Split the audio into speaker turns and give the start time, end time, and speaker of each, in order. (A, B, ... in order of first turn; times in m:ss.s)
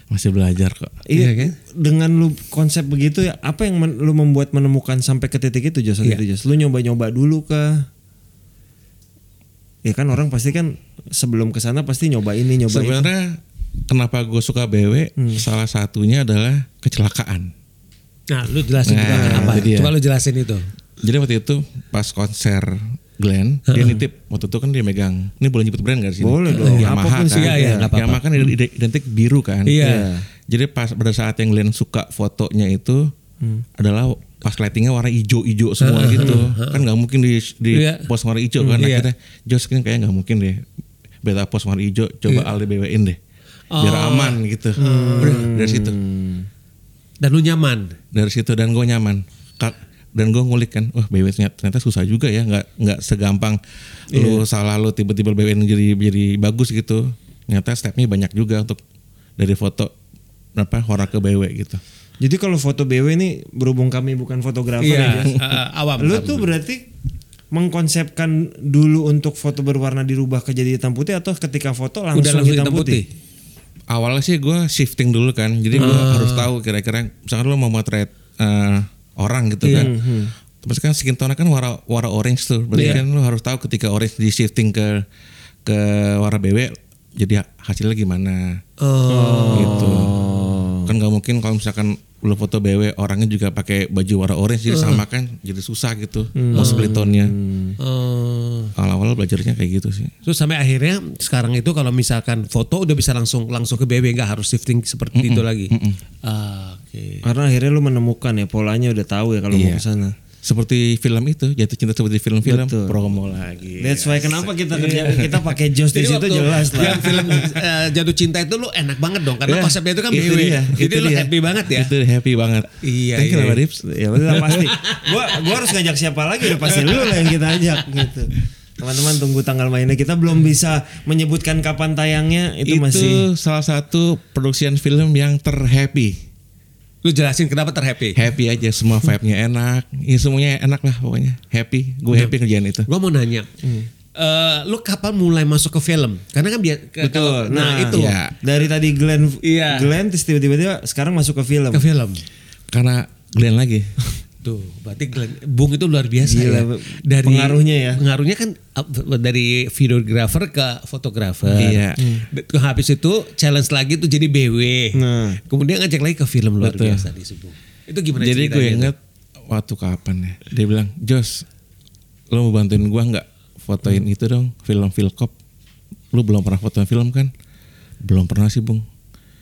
0:00.1-0:01.0 A
0:01.0-0:07.9 B
0:01.1-0:01.5 C
0:09.8-0:13.1 B
0:12.7-0:17.5 A
0:15.2-0:15.4 B
0:18.3-0:20.7 C
0:18.8-0:19.9 A
0:19.0-0:19.7 B
0:21.0-0:29.9 A
0:23.7-0:24.0 C
0:26.2-0:27.9 B
0:26.5-0:28.5 C
0:29.6-0:30.1 C
0:29.8-0:30.2 B
0:30.5-0:33.1 A
0:33.8-0:40.6 A
0:35.8-0:36.8 C
0:36.2-0:36.4 B
0:37.7-0:38.1 C
0:38.7-0:39.1 C
0:41.2-0:43.2 A
0:43.7-0:45.5 C
0:43.8-0:46.0 A
0:44.8-0:46.5 B
0:47.2-0:48.0 C
0:48.1-0:53.6 A
0:54.1-0:58.8 A
0:54.1-0:54.4 B
0:59.4-0:59.9 A
1:00.6-1:01.8 A
1:02.2-1:05.4 B
1:04.8-1:06.5 C
1:06.0-1:06.8 B
1:07.5-1:13.0 B
1:12.1-1:13.1 C
1:13.9-1:19.9 A
1:15.8-1:16.5 C
1:19.6-1:19.9 C
1:19.7-1:20.3 B
1:20.6-1:25.0 A
1:22.7-1:23.0 C
1:25.6-1:28.6 A
1:28.8-1:30.6 C
1:29.1-1:30.9 B
1:29.5-1:30.2 A
1:30.8-1:37.3 A
1:34.7-1:35.0 C
1:36.4-1:37.8 B
1:36.5-1:36.9 C
1:37.8-1:38.7 C
1:38.8-1:40.1 A
1:40.2-1:47.3 C
1:45.1-1:46.0 A
1:47.2-1:50.1 B
1:49.5-1:49.8 A
1:50.4-1:54.5 A
1:52.4-1:53.0 B
1:53.8-1:57.5 B
1:54.7-2:01.9 C
1:57.1-1:57.4 A
1:59.4-2:04.6 A
2:00.2-2:00.8 B
2:02.8-2:03.6 C
2:03.8-2:13.3 B
2:04.3-2:05.7 C
2:06.6-2:07.8 C
2:12.6-2:16.2 A
2:17.0-2:18.3 C
2:18.1-2:22.9 A
2:22.9-2:23.5 C
2:23.6-2:23.9 B
2:24.1-2:28.1 C
2:27.0-2:31.8 B
2:27.9-2:28.4 A
2:29.4-2:29.9 C
2:31.7-2:32.2 C
2:32.7-2:33.9 A
2:34.4-2:48.9 C
2:36.2-2:38.0 B
2:41.5-2:42.1 A
2:42.0-2:42.2 B
2:44.9-2:45.4 B
2:46.6-2:47.0 A
2:48.2-2:49.0 A
2:49.5-2:51.4 A
2:52.3-2:55.3 A
2:56.1-2:57.3 A
2:58.0-2:58.8 A